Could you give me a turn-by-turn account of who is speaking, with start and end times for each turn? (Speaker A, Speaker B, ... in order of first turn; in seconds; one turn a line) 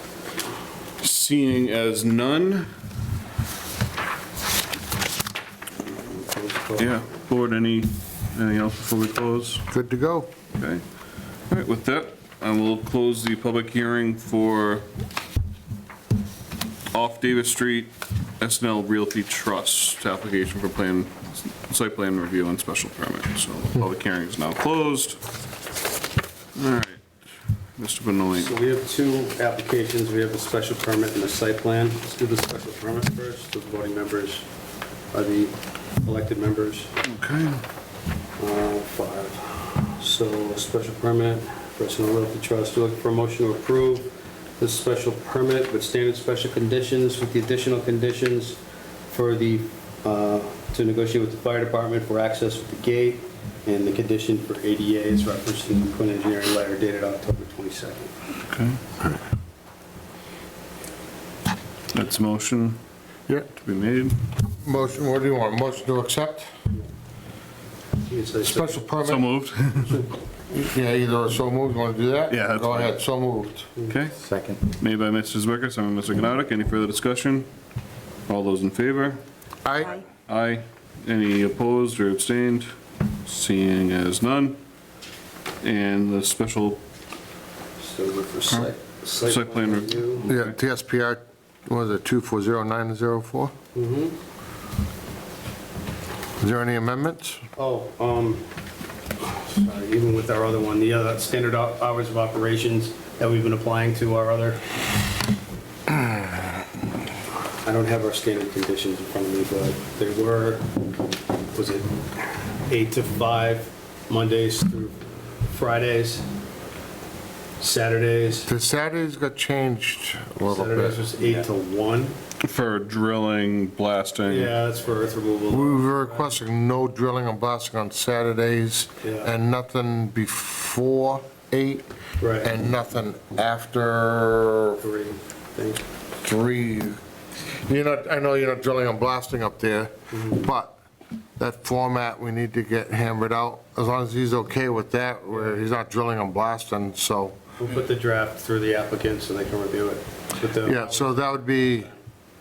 Speaker A: 1.0-2.7
Speaker B: 5.9-7.0
Speaker A: 6.8-9.6
Speaker C: 9.7-10.3
Speaker A: 10.5-10.8
Speaker A: 11.5-14.8
Speaker A: 16.9-25.2
Speaker A: 26.5-27.0
Speaker A: 27.8-28.5
Speaker B: 28.3-34.5
Speaker B: 35.1-36.9
Speaker A: 37.0-37.6
Speaker B: 38.4-58.1
Speaker A: 58.5-58.8
Speaker A: 61.9-62.8
Speaker A: 63.5-64.2
Speaker C: 64.5-66.5
Speaker B: 68.0-68.9
Speaker C: 68.4-69.2
Speaker A: 69.0-70.0
Speaker C: 70.5-73.7
Speaker A: 72.3-73.0
Speaker A: 73.8-74.2
Speaker A: 74.8-77.5
Speaker A: 78.3-79.2
Speaker C: 79.6-80.0
Speaker A: 80.3-82.7
Speaker A: 83.2-84.6
Speaker A: 85.6-86.8
Speaker B: 87.8-90.3
Speaker A: 89.2-90.5
Speaker C: 90.3-93.5
Speaker B: 93.7-94.2
Speaker C: 96.4-97.4
Speaker B: 97.5-98.4
Speaker B: 99.2-104.7
Speaker B: 107.6-110.7
Speaker B: 111.5-116.3
Speaker B: 117.6-118.5
Speaker C: 118.5-121.1
Speaker B: 120.5-122.2
Speaker A: 122.4-124.5
Speaker B: 124.3-126.3
Speaker C: 125.5-134.8
Speaker B: 129.0-129.3
Speaker B: 132.2-132.5
Speaker B: 134.8-135.8
Speaker C: 136.2-140.8
Speaker B: 140.1-140.4
Speaker C: 141.4-147.4
Speaker B: 147.6-151.4
Speaker C: 150.6-151.9